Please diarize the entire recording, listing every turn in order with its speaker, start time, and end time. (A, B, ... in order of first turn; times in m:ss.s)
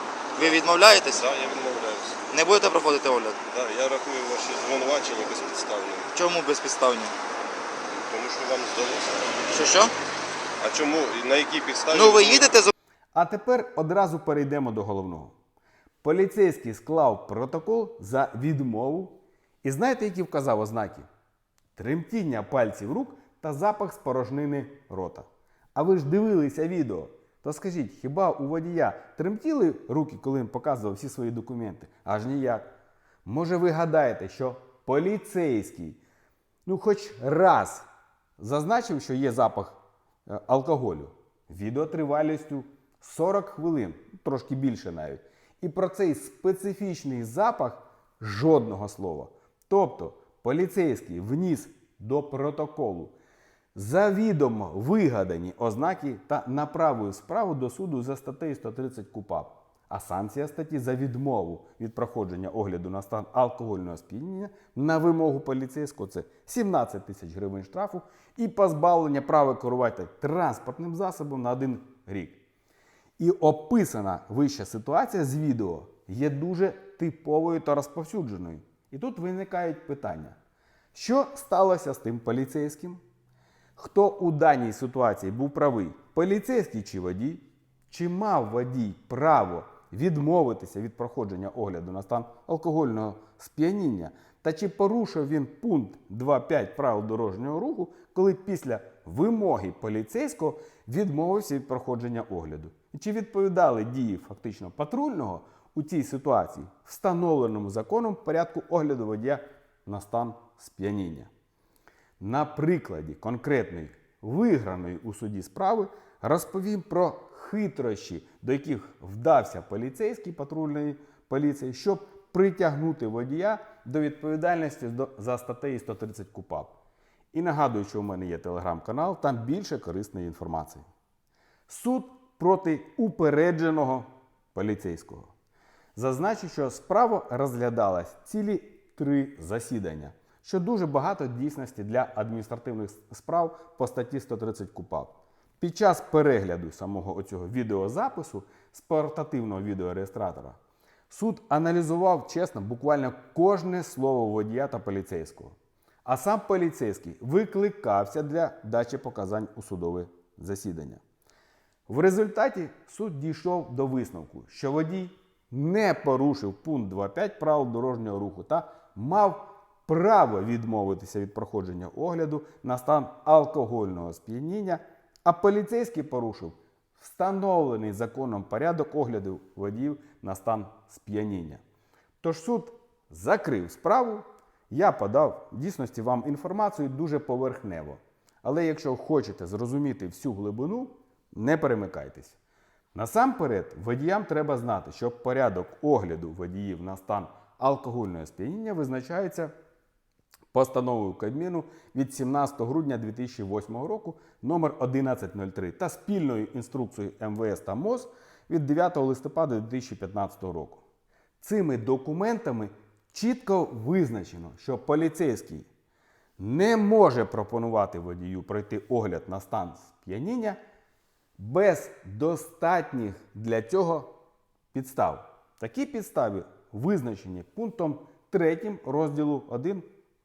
0:00.4-0:00.6 A
0:00.4-0:01.2 B
0:01.1-0:02.2 A
0:02.3-0:03.4 B
0:03.5-0:06.1 A
0:06.1-0:07.1 B
0:07.9-0:09.2 A
0:09.5-0:09.9 B
0:10.6-0:12.5 A
0:11.9-0:12.7 B
0:13.1-0:15.3 C
0:16.0-0:21.1 C
0:21.8-0:32.7 C
0:33.2-0:36.0 C
0:36.6-0:37.8 C
0:38.4-0:53.1 C
0:53.7-1:12.4 C
1:13.2-1:20.4 C
1:20.9-1:23.0 C
1:23.8-1:51.3 C
1:52.2-2:06.7 C
2:07.3-2:10.8 C
2:11.7-2:15.3 C
2:16.0-2:30.6 C
2:31.1-2:41.0 C
2:41.9-3:01.6 C
3:02.2-3:12.4 C
3:12.9-3:19.5 C
3:20.5-3:30.8 C
3:31.4-3:35.7 C
3:36.4-3:40.6 C
3:41.4-3:44.1 C
3:44.7-3:49.8 C